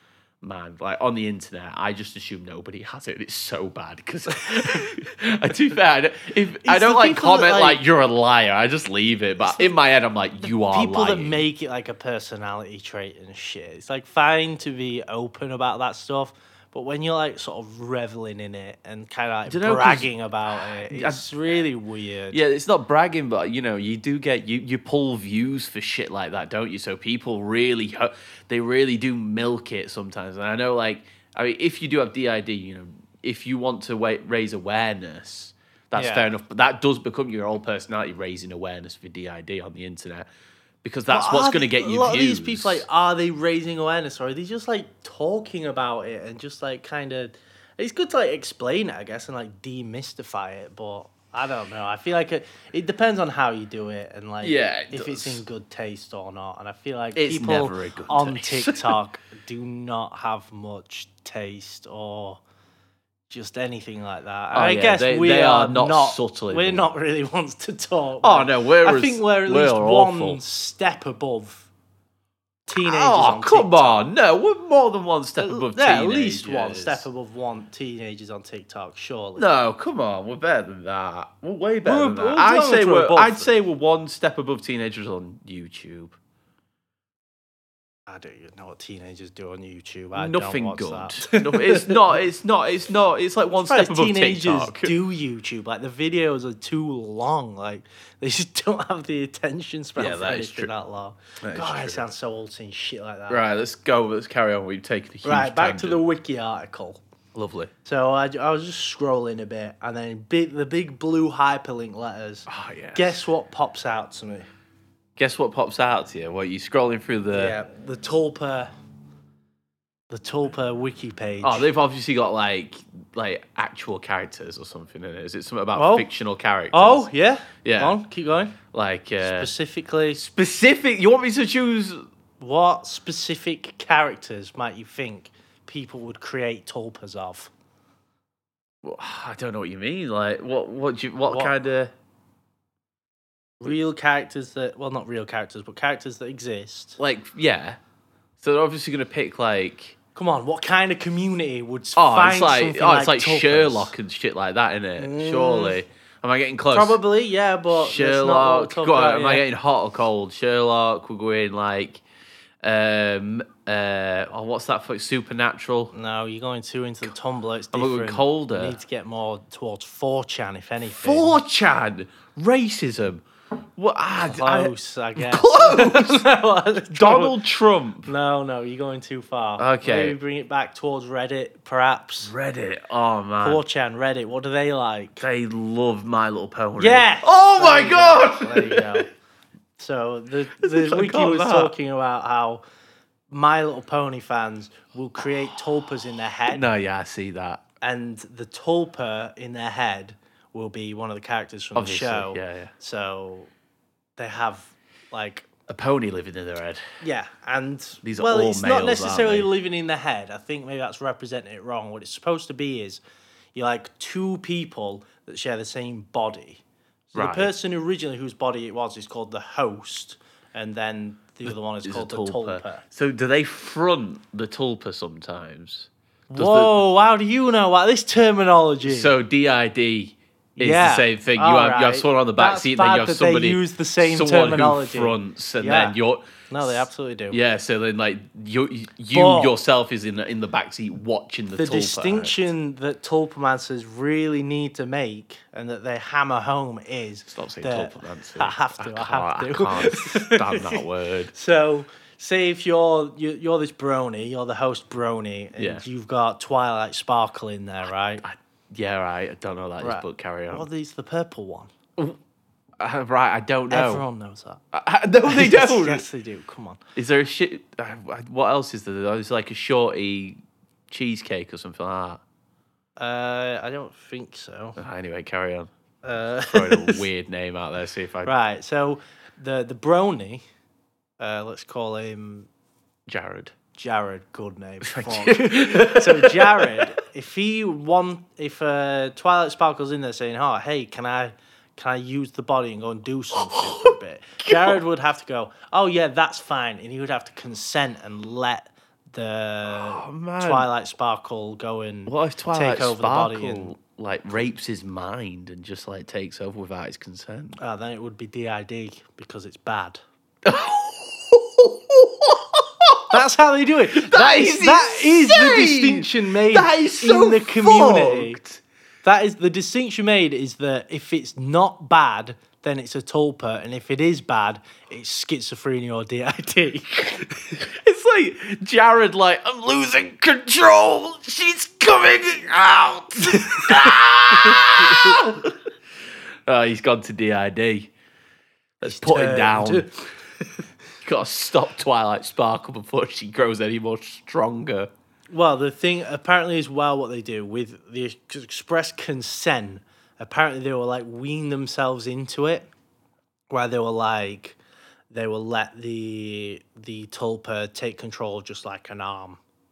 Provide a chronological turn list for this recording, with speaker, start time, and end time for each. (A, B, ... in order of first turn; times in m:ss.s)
0:00.4-0:11.4 A
0:06.6-0:07.8 B
0:10.5-0:22.4 B
0:19.5-0:20.1 A
0:20.6-0:21.3 A
0:22.3-0:40.3 A
0:35.9-0:36.3 B
0:40.8-0:42.8 A
0:41.1-1:02.4 B
0:54.4-0:55.4 A
0:57.1-0:59.0 A
1:03.3-1:11.7 B
1:04.5-1:06.8 A
1:08.2-1:10.4 A
1:12.6-1:14.1 B
1:12.8-1:17.0 A
1:15.4-1:19.5 B
1:19.4-1:26.2 A
1:21.8-1:23.5 B
1:28.1-1:32.2 B
1:30.1-1:34.9 A
1:33.6-1:43.4 B
1:40.0-1:40.7 A
1:41.4-1:42.0 A
1:43.3-1:46.0 A
1:45.2-1:47.0 B
1:47.3-1:47.7 A
1:47.8-1:54.5 B
1:52.5-1:53.2 A
1:55.2-1:57.6 A
1:57.3-1:58.7 B
2:00.1-2:01.7 B
2:01.4-2:07.1 A
2:05.7-2:06.1 B
2:06.7-2:08.6 B
2:07.6-2:08.0 A
2:08.7-2:09.5 A
2:09.2-2:10.2 B
2:10.2-2:12.0 A
2:12.4-2:17.5 B
2:18.8-2:21.9 A
2:21.2-2:21.5 B
2:23.6-2:27.0 B
2:27.0-2:27.8 A
2:28.4-2:30.0 A
2:30.1-2:33.9 B
2:32.0-2:37.0 A
2:35.0-2:35.8 B
2:36.7-2:39.4 B
2:37.7-2:42.0 A
2:42.6-2:45.9 A
2:45.9-2:51.4 B
2:47.7-2:48.8 A
2:50.9-2:53.2 A
2:53.8-2:56.3 A
2:54.2-2:57.4 B
2:56.9-2:58.1 A
2:58.0-3:02.3 B
2:59.6-3:00.2 A
3:02.2-3:03.6 A
3:03.4-3:05.2 B
3:05.2-3:09.0 A
3:06.8-3:09.1 B
3:09.8-3:12.6 B
3:10.6-3:11.7 A
3:13.3-3:16.6 B
3:16.5-3:17.6 A
3:17.8-3:23.5 B
3:21.7-3:22.7 A
3:24.2-3:25.5 B
3:25.7-3:26.8 A
3:27.0-3:33.0 B
3:28.0-3:29.5 A
3:33.5-3:42.8 B
3:37.1-3:37.5 A
3:41.5-3:46.8 A
3:46.3-3:49.1 B
3:48.8-4:02.4 A
3:50.6-3:56.0 B
3:56.5-3:57.4 B
3:59.1-3:59.6 B
4:01.5-4:18.2 B
4:07.3-4:11.3 A
4:15.6-4:15.8 A
4:18.2-4:20.7 A
4:19.8-4:21.7 B
4:22.8-4:24.0 A
4:23.7-4:24.6 B
4:24.7-4:26.0 A
4:25.2-4:26.8 B
4:27.0-4:30.4 A
4:30.9-4:32.2 A
4:33.0-4:34.8 B
4:34.8-4:35.7 A
4:36.0-4:37.0 B
4:36.5-4:38.3 A
4:38.2-4:40.4 B
4:41.2-4:42.5 B
4:43.1-4:43.5 A
4:43.7-5:03.8 B
4:44.8-4:46.9 A
4:53.3-4:54.8 A
4:59.7-5:00.7 A
5:02.1-5:07.6 A
5:07.6-5:10.0 B
5:10.4-5:13.2 A
5:13.1-5:18.4 B
5:13.9-5:18.6 A
5:19.0-5:27.6 B
5:27.6-5:35.6 A
5:33.3-5:35.3 B
5:36.5-5:37.9 A
5:38.8-5:39.9 A
5:38.8-5:40.1 B
5:41.0-5:44.9 A
5:45.3-5:52.7 B
5:53.5-5:54.6 B
5:55.1-5:59.4 B